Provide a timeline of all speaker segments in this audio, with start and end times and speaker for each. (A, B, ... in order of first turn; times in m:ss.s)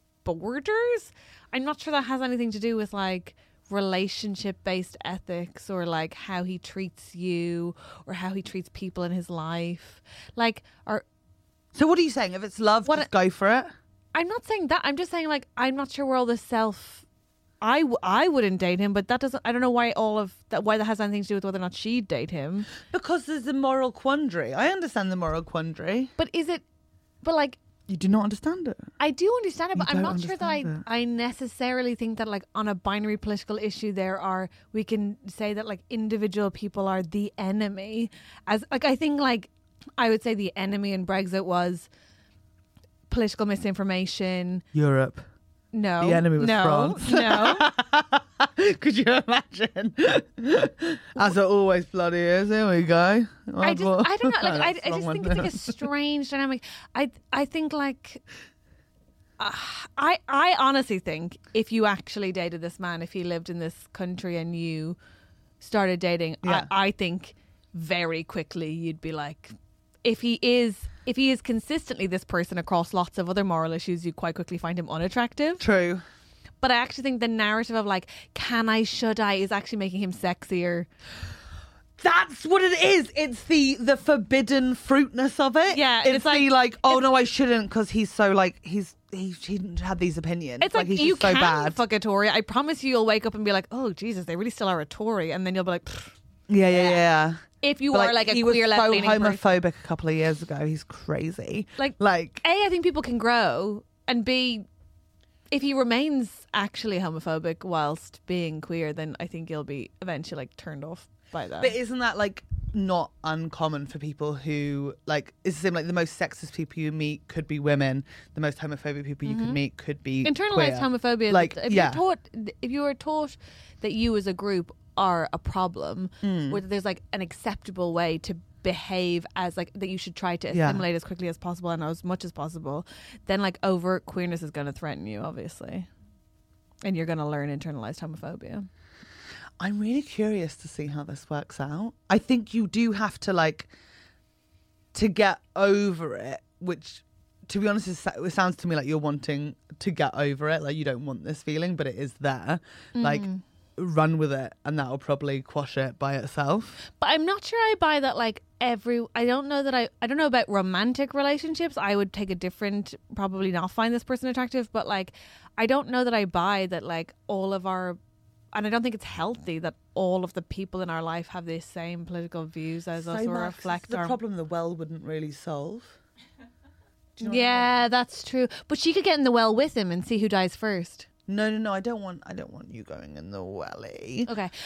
0:00.2-0:11.0 A
0:11.7-0:13.7 B
0:14.1-0:17.0 A
0:17.6-0:22.7 A
0:22.9-0:26.1 B
0:26.2-0:26.6 A
0:27.2-0:27.6 A
0:27.9-0:28.9 B
0:29.0-0:41.9 A
0:29.7-0:30.8 B
0:43.1-0:44.6 A
0:44.7-0:45.2 B
0:45.7-0:47.7 A
0:46.0-0:55.8 B
0:53.6-0:58.2 A
0:59.4-1:05.0 A
1:05.6-1:15.6 A
1:06.4-1:06.7 B
1:15.6-1:16.0 B
1:16.6-1:20.9 A
1:22.0-1:31.8 B
1:25.7-1:27.0 A
1:30.6-1:36.1 A
1:36.5-1:42.4 B
1:36.6-1:37.0 A
1:37.6-1:39.5 A
1:41.8-1:44.6 A
1:45.5-1:51.8 A
1:51.6-2:02.0 B
1:59.2-1:59.6 A
2:00.2-2:15.9 A
2:06.2-2:06.6 B
2:10.5-2:10.8 B
2:16.8-2:18.7 A
2:19.6-2:23.7 B
2:24.9-2:33.2 B
2:33.0-2:33.4 A
2:33.8-2:36.8 B
2:37.0-2:48.0 A
2:48.5-2:54.2 A
2:53.0-2:56.0 B
2:57.2-2:57.8 B
2:57.2-3:01.1 A
3:01.3-3:04.3 B
3:04.3-3:04.5 A